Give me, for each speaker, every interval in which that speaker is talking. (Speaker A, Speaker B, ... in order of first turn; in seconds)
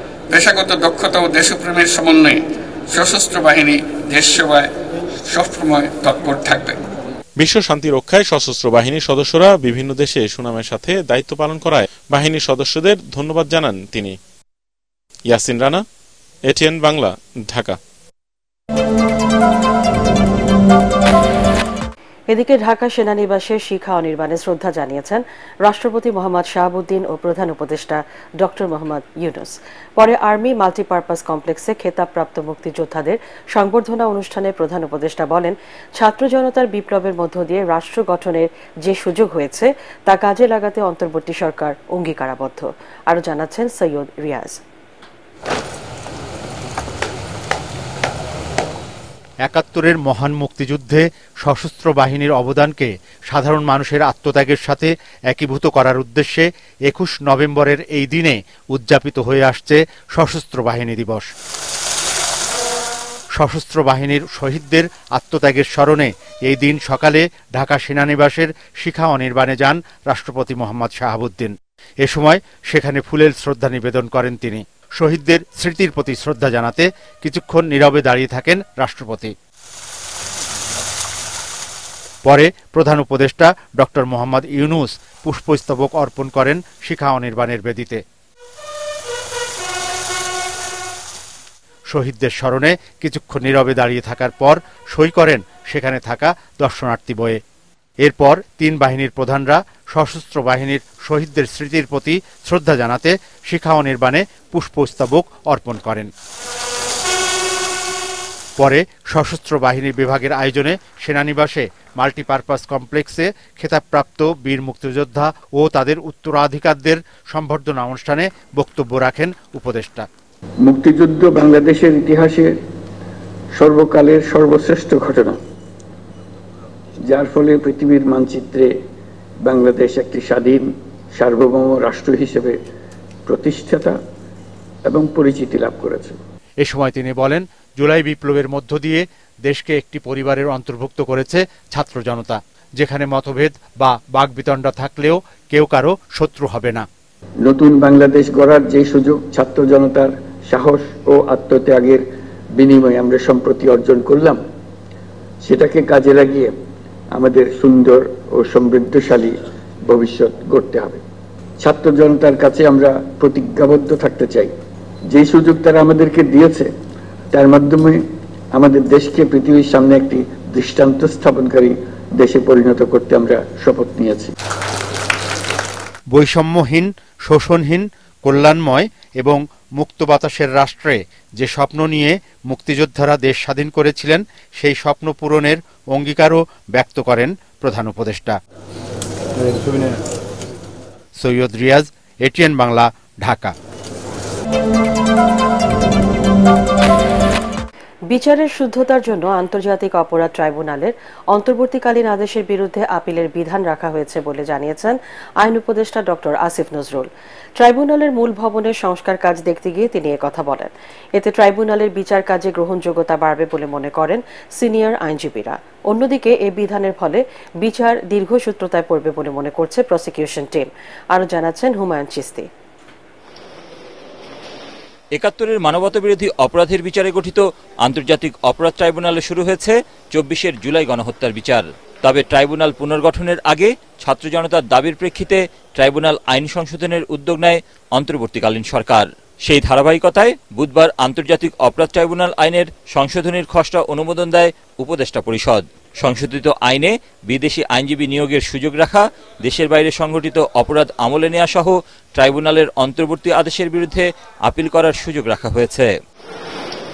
Speaker A: 0.3-4.7, 5.2-6.8
Speaker B: 7.4-14.2, 15.3-15.8, 16.5-17.8
Speaker C: 22.3-44.6, 198.1-222.5
Speaker D: 49.5-61.3, 63.4-79.3, 82.2-88.0, 91.9-97.4, 98.0-106.1, 108.6-120.1, 136.6-146.9, 176.1-188.4, 191.2-193.6
Speaker E: 120.6-122.6, 123.5-125.4, 127.0-128.7, 129.4-132.6, 133.3-134.0, 134.8-136.2, 147.4-154.4, 155.4-156.6, 157.1-161.0, 161.6-164.5, 165.1-166.7, 167.3-174.3
Speaker F: 225.2-255.9